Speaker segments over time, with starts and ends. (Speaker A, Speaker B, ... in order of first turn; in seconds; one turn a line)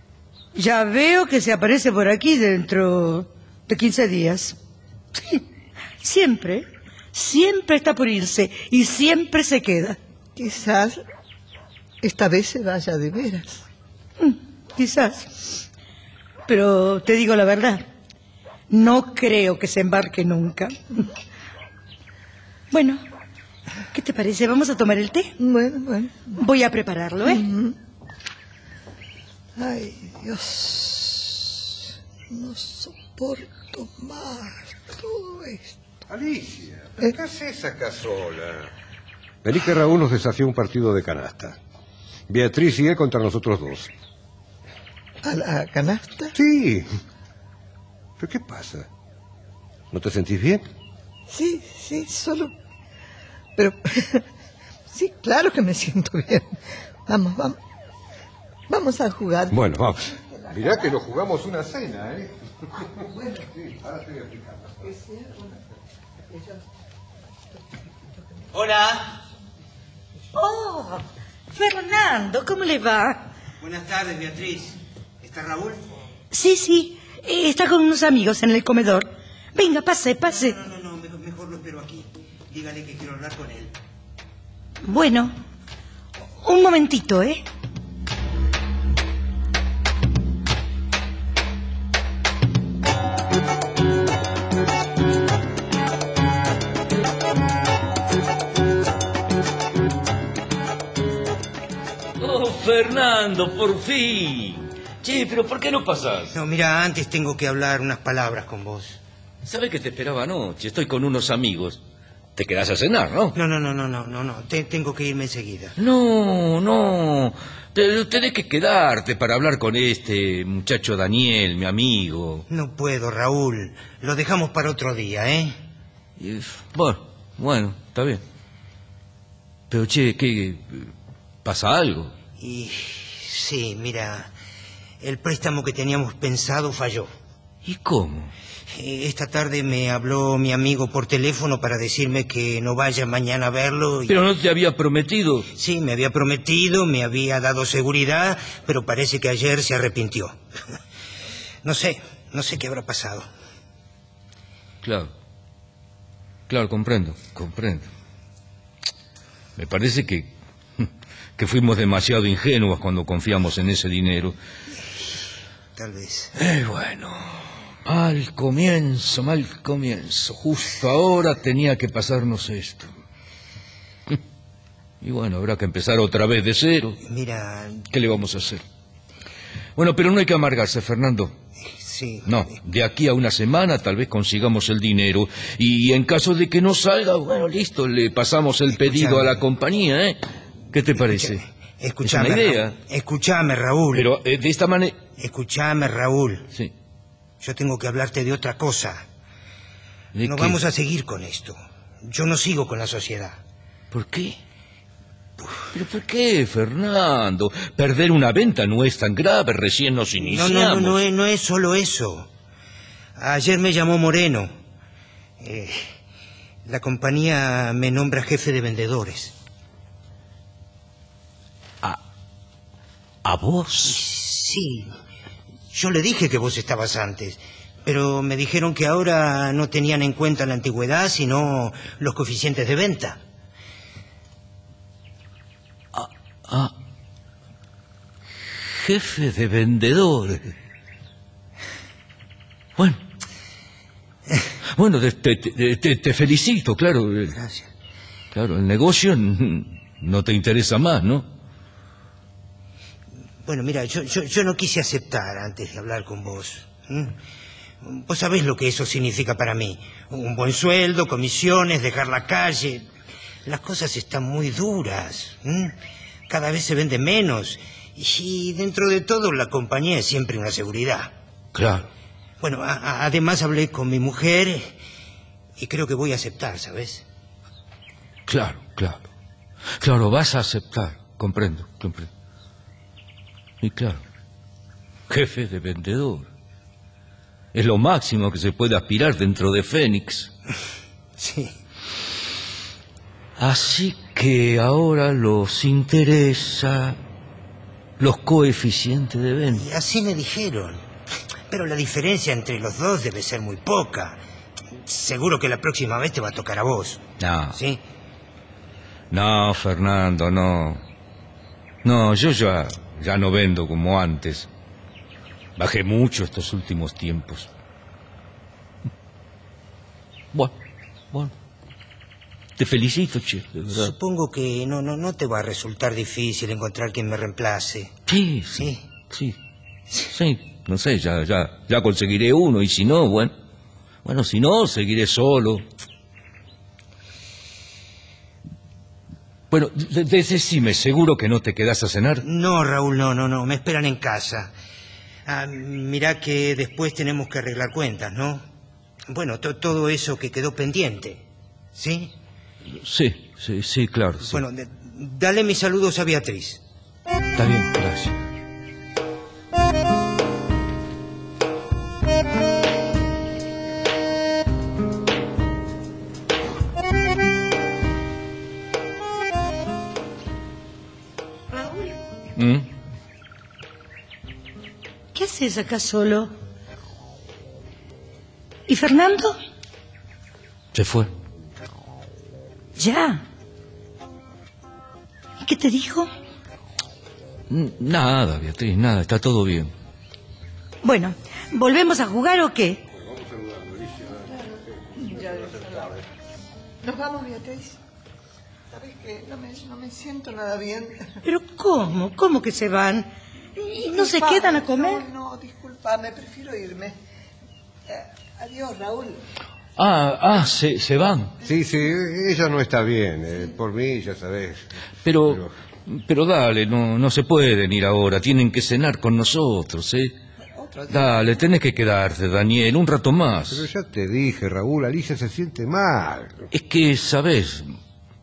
Speaker A: 0.5-4.6
Speaker A: 5.1-5.4
Speaker A: 6.0-10.0
Speaker B: 10.3-11.0
Speaker B: 12.0-13.6
Speaker A: 14.2-15.6
Speaker A: 16.5-17.9
Speaker A: 18.7-21.0
Speaker A: 22.7-23.0
Speaker A: 23.9-25.3
Speaker B: 25.4-26.4
Speaker A: 26.3-27.5
Speaker B: 27.2-27.7
Speaker B: 29.6-31.7
Speaker B: 32.3-35.8
Speaker C: 36.1-38.7
Speaker C: 39.4-41.6
Speaker C: 42.3-43.9
Speaker B: 45.2-46.3
Speaker C: 46.3-46.9
Speaker C: 48.2-48.9
Speaker C: 49.9-50.6
Speaker B: 51.3-52.5
Speaker B: 53.6-54.2
Speaker B: 54.9-57.6
Speaker B: 58.7-59.6
Speaker C: 59.5-63.0
Speaker B: 60.3-60.9
Speaker B: 63.0-63.4
Speaker C: 63.5-64.9
Speaker B: 64.8-65.6
Speaker B: 66.3-66.6
Speaker D: 68.5-69.1
Speaker A: 70.3-73.2
Speaker D: 73.6-75.9
Speaker A: 76.3-80.6
Speaker D: 80.4-83.7
Speaker A: 84.8-85.3
Speaker A: 86.4-87.4
Speaker E: 102.2-106.3
Speaker D: 106.3-109.0
Speaker E: 109.4-111.8
Speaker E: 112.3-113.4
Speaker D: 113.3-115.7
Speaker E: 115.8-122.5
Speaker D: 122.5-125.5
Speaker E: 126.2-128.2
Speaker E: 129.7-130.9
Speaker E: 131.4-132.1
Speaker D: 132.4-134.3
Speaker D: 135.0-137.1
Speaker E: 137.6-138.3
Speaker D: 138.7-144.2
Speaker E: 144.1-145.5
Speaker D: 145.5-150.3
Speaker D: 151.6-153.3
Speaker E: 154.8-155.1
Speaker E: 156.5-157.9
Speaker E: 159.6-164.3
Speaker D: 165.8-166.3
Speaker E: 166.3-172.9
Speaker E: 175.0-177.0
Speaker D: 177.0-177.8
Speaker E: 177.9-178.6
Speaker E: 179.8-181.3
Speaker D: 181.6-182.5
Speaker E: 182.2-190.2
Speaker D: 188.7-189.4
Speaker E: 190.7-191.4
Speaker D: 190.9-194.1
Speaker E: 192.0-192.8
Speaker E: 193.9-195.0
Speaker D: 195.2-196.5
Speaker D: 197.4-199.0
Speaker E: 200.1-200.6
Speaker D: 200.2-203.4
Speaker E: 203.9-204.4
Speaker E: 205.7-211.0
Speaker D: 210.1-212.3
Speaker D: 213.2-214.5
Speaker D: 215.4-215.9
Speaker D: 216.6-219.3
Speaker E: 223.2-224.0
Speaker D: 223.8-225.0
Speaker D: 225.7-233.2
Speaker E: 235.9-236.7
Speaker E: 238.6-240.5
Speaker E: 244.7-247.4
Speaker D: 247.3-247.7
Speaker E: 248.3-251.3
Speaker D: 253.4-257.1
Speaker D: 257.8-262.9
Speaker D: 263.4-265.7
Speaker D: 266.3-271.1
Speaker E: 271.5-271.9
Speaker D: 272.4-274.8
Speaker D: 275.6-277.0
Speaker E: 278.3-279.1
Speaker E: 279.8-282.1
Speaker E: 283.6-284.0
Speaker E: 285.1-286.3
Speaker E: 287.5-290.3
Speaker D: 291.2-291.5
Speaker E: 293.4-297.0
Speaker E: 298.0-299.6
Speaker D: 299.5-300.8
Speaker D: 301.5-304.2
Speaker D: 304.8-307.8
Speaker E: 307.2-307.6
Speaker E: 309.1-310.8
Speaker E: 311.8-314.5
Speaker E: 315.6-317.5
Speaker E: 322.6-323.9
Speaker D: 323.7-327.9
Speaker E: 328.1-329.4
Speaker D: 328.6-328.8
Speaker E: 330.0-333.3
Speaker E: 334.0-335.6
Speaker E: 339.5-342.2
Speaker D: 342.2-344.5
Speaker D: 345.2-348.4
Speaker D: 349.1-351.2
Speaker D: 351.7-352.1
Speaker E: 352.7-354.4
Speaker D: 354.2-356.6
Speaker E: 357.4-358.2
Speaker A: 371.5-372.0
Speaker E: 372.4-372.7
Speaker A: 375.1-376.3
Speaker A: 378.7-379.4
Speaker E: 380.7-381.1
Speaker A: 382.8-383.2
Speaker A: 385.4-386.1
Speaker E: 387.5-389.7
Speaker A: 390.8-392.8
Speaker C: 392.9-396.0
Speaker B: 395.0-396.0
Speaker B: 396.8-397.8
Speaker B: 398.7-401.1
Speaker A: 401.2-405.0
Speaker B: 403.8-407.0
Speaker B: 407.9-409.2
Speaker E: 409.8-411.3
Speaker C: 411.4-414.7
Speaker E: 415.0-420.1
Speaker C: 415.2-415.5
Speaker B: 420.5-421.1
Speaker E: 420.9-423.7
Speaker C: 423.5-426.5
Speaker E: 426.5-427.7